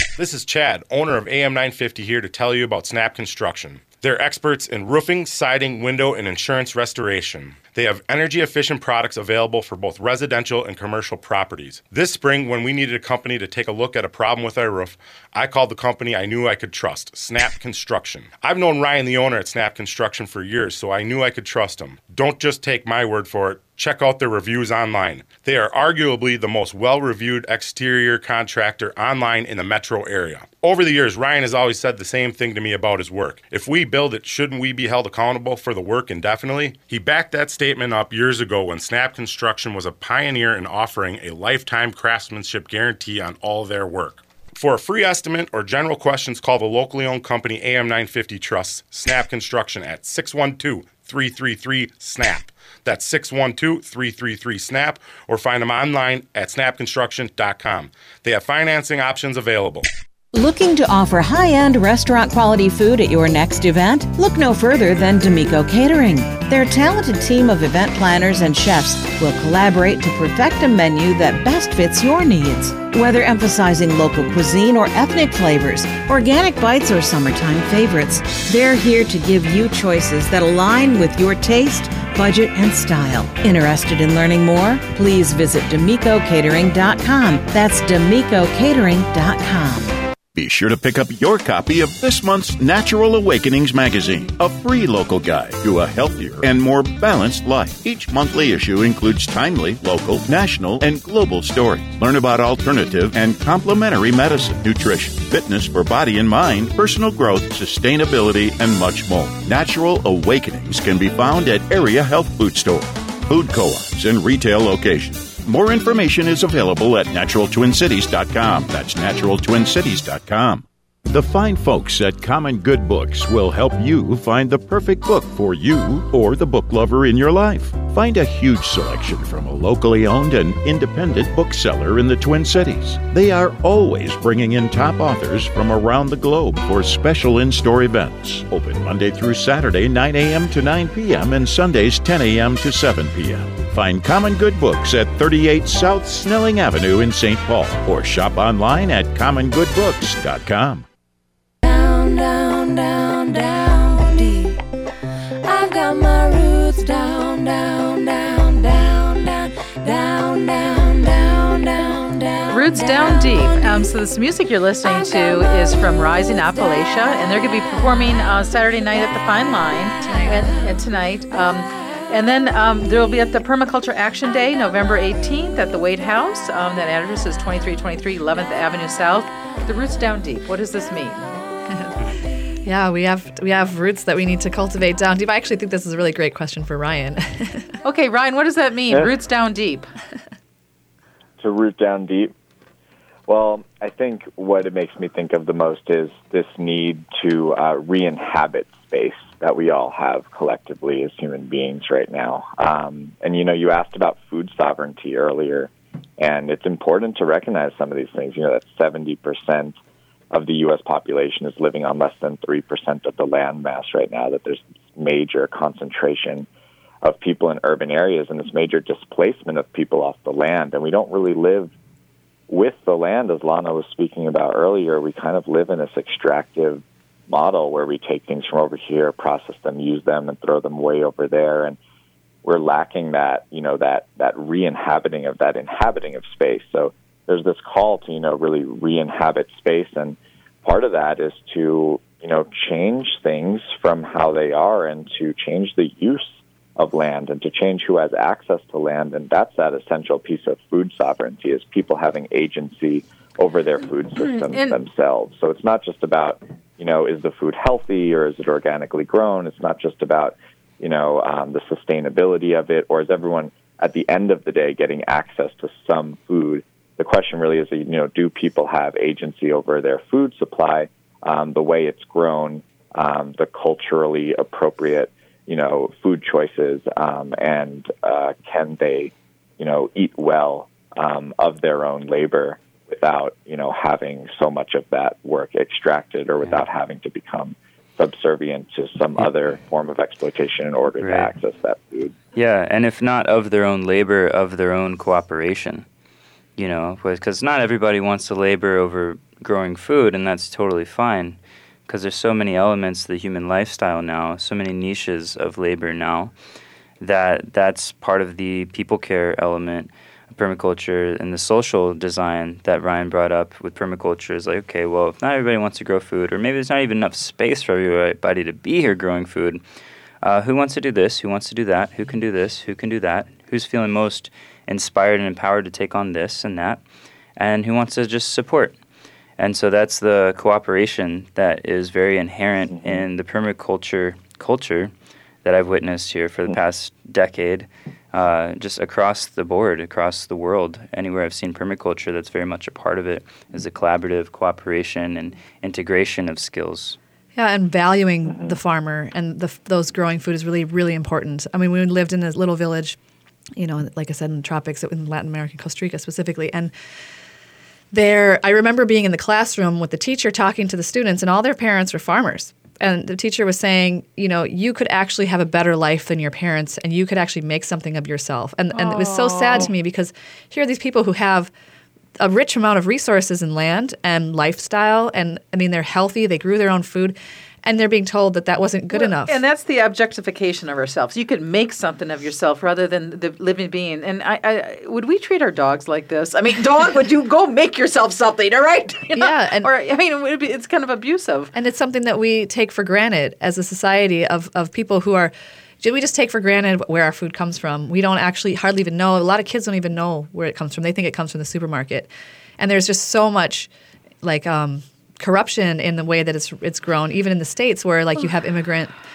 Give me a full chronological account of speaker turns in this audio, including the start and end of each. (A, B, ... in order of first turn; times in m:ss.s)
0:00.2-0:59.9 A
1:00.3-1:30.0 B
1:30.3-2:30.8 C
2:31.6-2:34.6 D
2:35.4-2:43.8 D
2:42.5-3:01.3 E
2:50.0-2:50.5 F
3:02.6-3:07.8 F
3:07.8-3:09.9 E
3:11.4-3:12.3 G
3:13.3-3:29.8 G
3:30.3-3:36.5 G
3:37.0-3:41.7 G
3:42.5-3:51.8 G
3:52.4-4:52.1 G
4:14.2-4:14.8 E
4:51.0-4:51.3 H
4:52.3-4:55.8 H
4:56.6-5:06.3 H
5:07.0-5:19.6 H
5:20.2-5:26.8 H
5:27.4-5:28.8 H
5:29.4-5:34.9 H
5:32.8-5:33.0 G
5:35.4-5:47.0 H
5:47.4-5:53.0 F
5:53.6-5:56.7 F
5:57.9-6:11.5 F
6:08.7-6:09.7 E
6:12.2-6:19.4 F
6:18.9-6:31.5 E
6:29.1-6:29.7 F
6:31.5-6:43.7 F
6:44.2-6:48.9 F